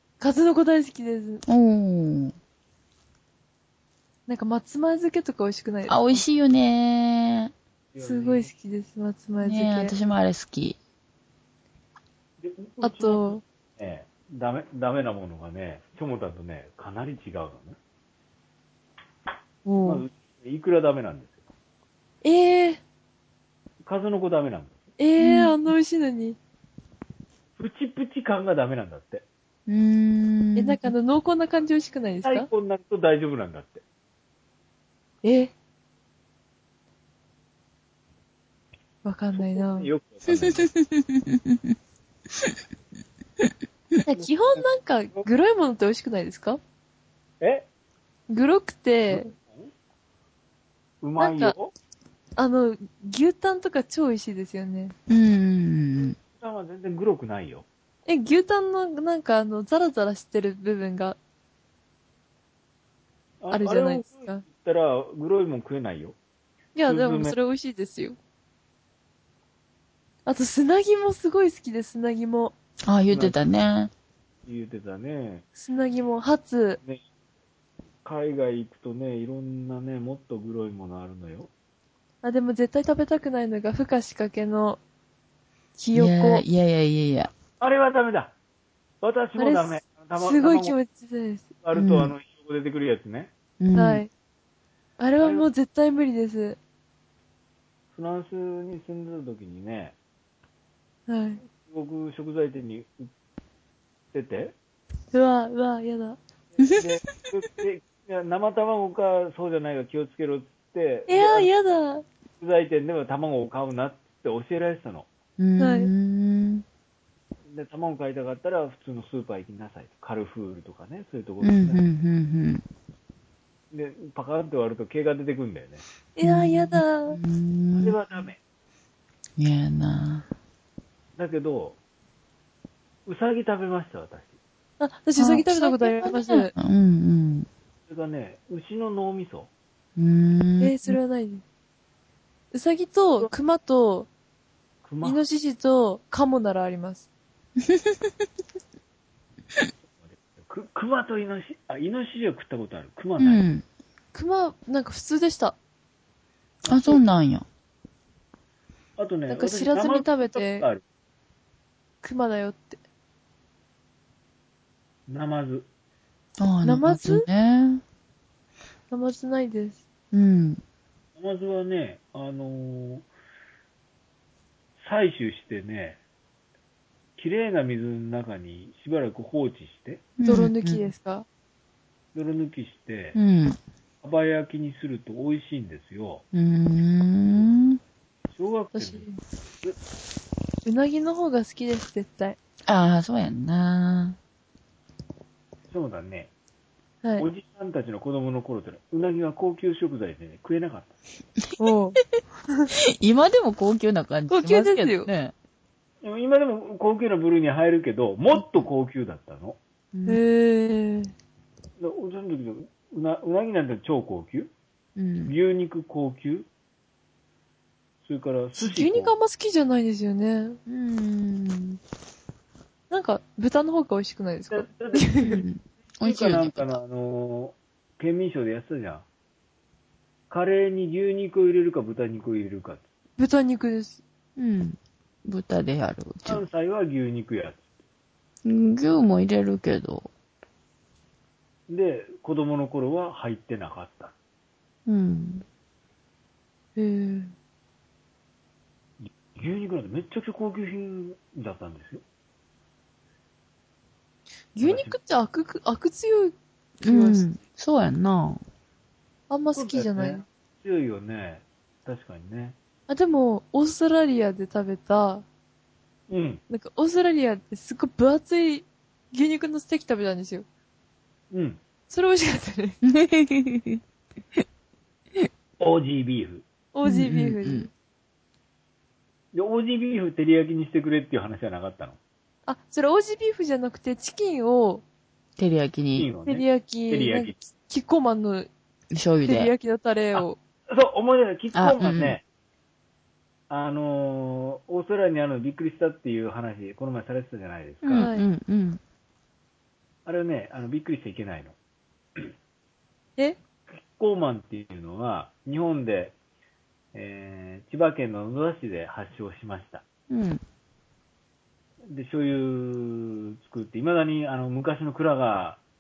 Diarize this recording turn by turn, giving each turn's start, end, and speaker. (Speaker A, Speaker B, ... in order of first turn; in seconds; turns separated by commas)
Speaker A: 0.2-1.4, Speaker B: 1.5-2.4, Speaker A: 4.3-6.2, Speaker B: 5.9-7.5, Speaker C: 7.9-8.5, Speaker A: 8.0-9.9, Speaker B: 9.4-10.8, Speaker C: 12.4-17.8, Speaker A: 12.8-13.4, Speaker A: 19.7-20.0, Speaker C: 19.9-21.4, Speaker A: 22.2-22.8, Speaker C: 23.8-24.9, Speaker A: 25.0-26.4, Speaker B: 25.2-25.6, Speaker C: 27.6-29.2, Speaker B: 29.7-30.9, Speaker A: 30.6-32.5, Speaker C: 32.2-33.8, Speaker A: 35.2-35.5, Speaker A: 39.0-39.9, Speaker C: 39.3-40.7, Speaker B: 40.3-41.8, Speaker A: 44.1-46.6, Speaker C: 44.1-45.3, Speaker C: 47.4-47.7, Speaker A: 48.3-49.3, Speaker C: 49.1-49.7, Speaker C: 51.0-51.7, Speaker A: 51.2-51.5, Speaker A: 52.4-54.9, Speaker B: 55.1-56.2, Speaker C: 56.2-57.7, Speaker A: 58.1-61.2, Speaker C: 63.4-66.2, Speaker A: 63.5-64.5, Speaker A: 66.8-68.2, Speaker C: 66.9-67.4, Speaker A: 70.3-72.5, Speaker B: 72.9-73.9, Speaker C: 73.1-73.4, Speaker C: 74.4-75.5, Speaker A: 75.6-76.8, Speaker C: 76.8-77.1, Speaker C: 78.0-81.5, Speaker A: 82.2-84.8, Speaker A: 85.8-86.5, Speaker B: 86.0-87.3, Speaker C: 87.6-88.3, Speaker C: 89.0-90.8, Speaker A: 89.4-91.5, Speaker C: 91.6-93.3, Speaker B: 91.7-92.1, Speaker B: 93.6-94.0, Speaker A: 93.8-94.1, Speaker A: 95.0-96.6, Speaker C: 95.2-95.5, Speaker C: 97.9-99.9, Speaker A: 101.1-101.4, Speaker C: 101.5-103.1, Speaker C: 104.1-104.5, Speaker A: 105.1-106.2, Speaker C: 106.6-111.5, Speaker A: 111.1-112.0, Speaker C: 112.4-115.1, Speaker B: 115.4-116.6, Speaker A: 115.6-115.9, Speaker C: 117.5-121.8, Speaker B: 121.4-122.6, Speaker C: 123.7-125.8, Speaker A: 126.2-127.2, Speaker B: 126.2-128.0, Speaker C: 127.8-128.4, Speaker B: 129.4-130.2, Speaker C: 131.2-131.8, Speaker C: 133.1-134.4, Speaker A: 134.8-136.5, Speaker B: 135.2-137.5, Speaker C: 137.9-139.5, Speaker B: 140.0-141.0, Speaker A: 140.6-141.4, Speaker A: 142.5-144.1, Speaker C: 144.8-145.2, Speaker A: 145.0-147.1, Speaker B: 147.7-148.0, Speaker C: 149.9-153.4, Speaker B: 153.2-153.6, Speaker A: 154.1-155.6, Speaker B: 156.7-157.4, Speaker C: 156.7-157.0, Speaker C: 159.0-160.8, Speaker A: 159.3-160.7, Speaker A: 162.0-162.8, Speaker C: 165.1-165.7, Speaker B: 166.4-167.8, Speaker A: 166.7-167.3, Speaker A: 168.9-169.8, Speaker B: 170.1-170.6, Speaker C: 171.2-173.1, Speaker C: 174.8-176.0, Speaker C: 177.2-180.1, Speaker B: 180.2-180.9, Speaker A: 180.2-181.3, Speaker C: 182.1-183.2, Speaker B: 183.2-183.6, Speaker C: 184.0-186.2, Speaker B: 186.3-187.8, Speaker C: 188.3-189.1, Speaker A: 188.8-189.2, Speaker A: 190.7-192.4, Speaker B: 192.7-194.2, Speaker C: 195.7-196.3, Speaker C: 197.2-200.9, Speaker A: 201.6-202.0, Speaker B: 203.0-205.3, Speaker A: 204.3-205.1, Speaker C: 206.0-209.6, Speaker B: 209.9-210.2, Speaker A: 210.1-211.1, Speaker C: 211.8-214.5, Speaker B: 215.0-215.3, Speaker C: 215.2-216.5, Speaker C: 218.0-219.1, Speaker A: 218.6-220.6, Speaker B: 220.7-221.8, Speaker A: 222.9-225.4, Speaker C: 224.5-225.4, Speaker B: 225.3-226.8, Speaker C: 226.0-229.1, Speaker C: 230.3-232.9, Speaker A: 233.2-234.0, Speaker B: 234.4-236.4, Speaker C: 236.3-237.6, Speaker B: 238.4-240.1, Speaker C: 241.7-244.2, Speaker B: 244.9-245.4, Speaker A: 246.8-247.3, Speaker C: 249.0-252.0, Speaker A: 254.6-257.3, Speaker C: 254.6-255.0, Speaker B: 256.8-258.4, Speaker A: 259.3-260.2, Speaker C: 259.5-262.6, Speaker A: 262.9-265.2, Speaker C: 266.1-266.4, Speaker A: 266.5-270.4, Speaker C: 271.3-271.6, Speaker A: 271.9-272.8, Speaker B: 272.8-273.8, Speaker C: 275.6-276.4, Speaker A: 276.7-277.7, Speaker B: 276.8-277.7, Speaker C: 279.3-282.0, Speaker A: 282.5-284.8, Speaker B: 285.4-286.1, Speaker C: 286.0-287.4, Speaker A: 286.3-288.5, Speaker B: 288.9-289.5, Speaker A: 289.2-290.4, Speaker C: 290.1-292.2, Speaker B: 291.5-292.2, Speaker C: 293.5-298.1, Speaker B: 297.8-298.8, Speaker A: 297.9-298.3, Speaker C: 300.1-301.6, Speaker C: 303.7-306.1, Speaker C: 306.9-309.8, Speaker B: 310.1-310.4, Speaker C: 311.9-315.6